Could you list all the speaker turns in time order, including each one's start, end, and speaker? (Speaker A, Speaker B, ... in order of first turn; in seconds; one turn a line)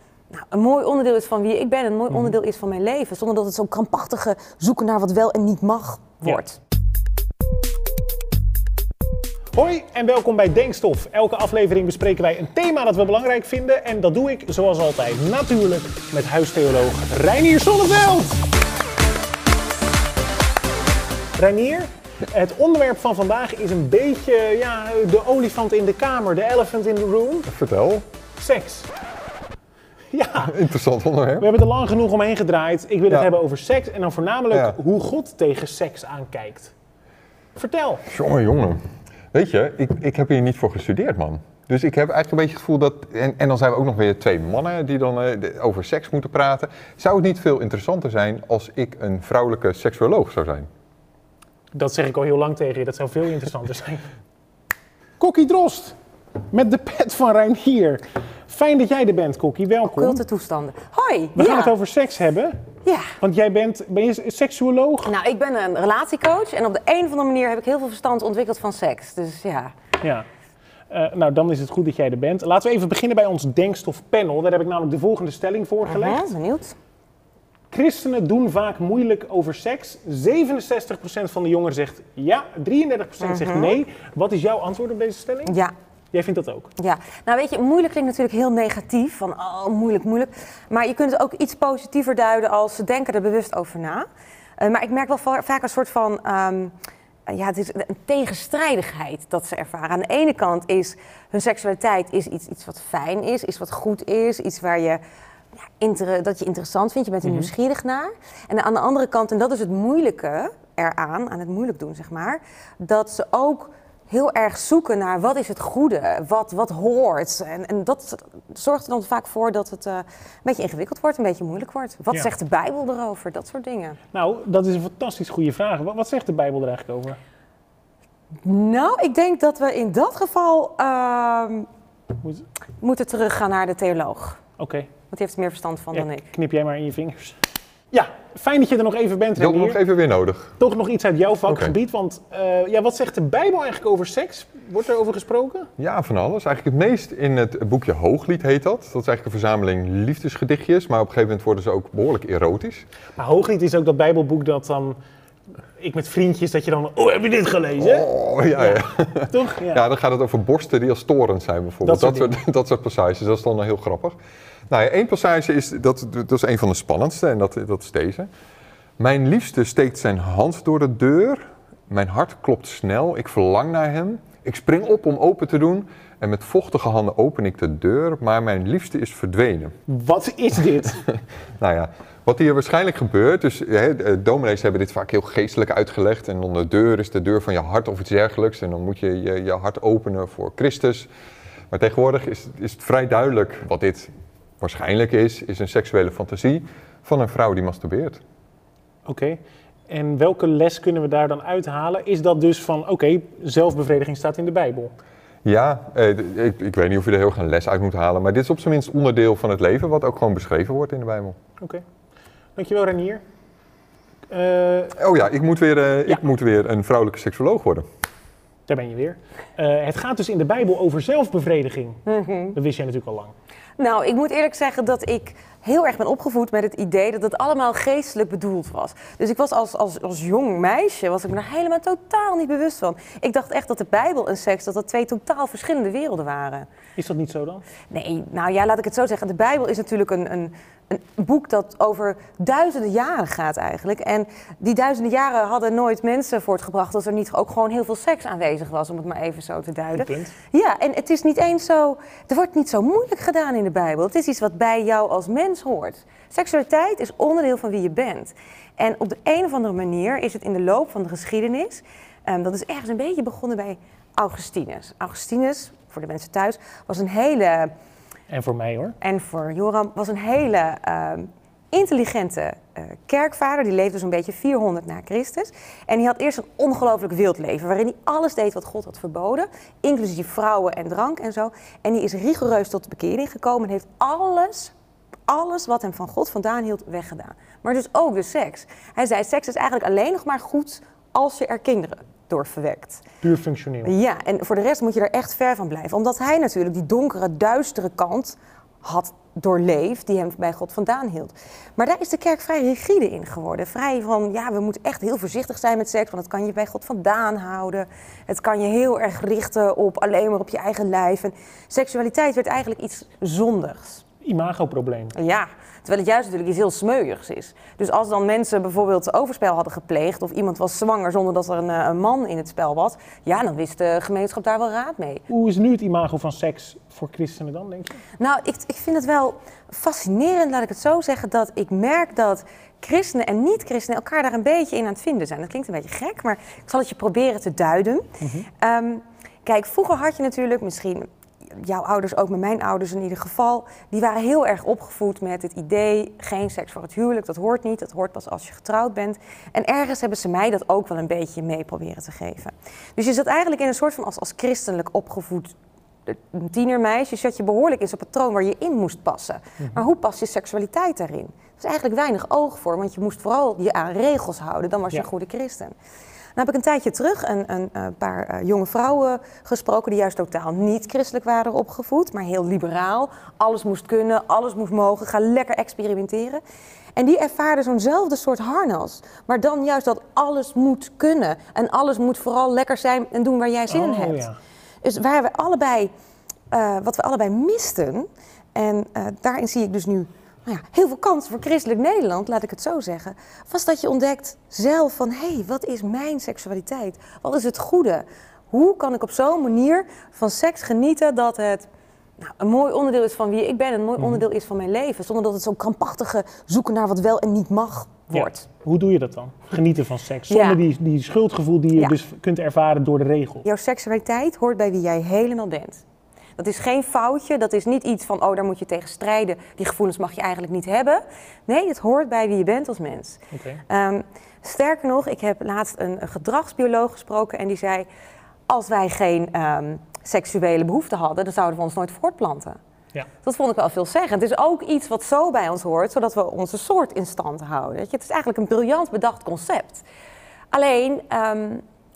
Speaker A: 0.3-6.6
Speaker B: 9.5-18.4
Speaker B: 21.4-27.5
Speaker C: 27.5-28.1
Speaker B: 28.4-28.9
Speaker B: 30.1-30.5
Speaker C: 30.4-31.5
Speaker B: 31.4-36.7
Speaker C: 34.5-34.8
Speaker B: 37.6-38.0
Speaker C: 38.1-38.8
Speaker C: 39.3-50.7
Speaker B: 51.7-54.1
Speaker B: 55.2-56.0
Speaker B: 56.5-60.2
Speaker A: 59.8-61.7
Speaker B: 61.4-62.6
Speaker A: 62.9-63.1
Speaker B: 63.2-65.1
Speaker A: 65.0-69.7
Speaker B: 70.9-76.3
Speaker A: 75.9-76.8
Speaker B: 77.7-85.6
Speaker A: 83.2-83.8
Speaker A: 85.5-85.7
Speaker B: 86.1-86.7
Speaker A: 86.8-94.1
Speaker A: 94.6-96.7
Speaker A: 97.3-105.0
Speaker A: 105.8-124.0
Speaker B: 107.2-107.5
Speaker B: 124.1-127.2
Speaker A: 128.4-131.7
Speaker A: 132.8-134.4
Speaker B: 134.6-134.9
Speaker A: 135.1-136.3
Speaker B: 135.9-137.4
Speaker B: 137.9-139.8
Speaker C: 139.4-140.6
Speaker B: 140.6-145.7
Speaker C: 141.5-141.8
Speaker C: 145.8-152.9
Speaker B: 153.2-155.0
Speaker B: 155.8-158.1
Speaker C: 157.8-164.2
Speaker B: 158.6-159.8
Speaker B: 161.8-162.3
Speaker C: 164.7-168.3
Speaker C: 169.0-179.7
Speaker B: 179.9-181.0
Speaker C: 181.6-191.1
Speaker C: 191.7-194.1
Speaker C: 194.6-198.2
Speaker B: 199.1-204.9
Speaker C: 205.4-211.4
Speaker B: 212.6-213.2
Speaker B: 214.3-214.9
Speaker C: 215.0-217.8
Speaker B: 218.7-222.0
Speaker A: 222.1-222.6
Speaker B: 222.5-223.3
Speaker A: 223.8-236.7
Speaker B: 237.0-237.7
Speaker A: 237.9-267.7
Speaker B: 250.0-250.3
Speaker B: 268.3-269.0
Speaker A: 269.0-284.7
Speaker A: 285.3-293.0
Speaker B: 293.2-293.9
Speaker A: 293.8-314.0
Speaker B: 314.2-315.1
Speaker A: 315.1-325.2
Speaker B: 325.3-328.0
Speaker A: 328.2-355.6
Speaker A: 356.1-365.8
Speaker A: 366.4-376.4
Speaker A: 377.0-384.3
Speaker B: 383.7-384.4
Speaker A: 384.8-385.9
Speaker A: 386.5-401.7
Speaker A: 402.2-408.5
Speaker B: 404.0-404.2
Speaker B: 408.1-413.4
Speaker A: 410.3-410.6
Speaker A: 413.4-415.8
Speaker A: 416.4-427.9
Speaker B: 423.3-423.6
Speaker A: 428.5-432.6
Speaker A: 433.2-439.9
Speaker A: 440.5-441.6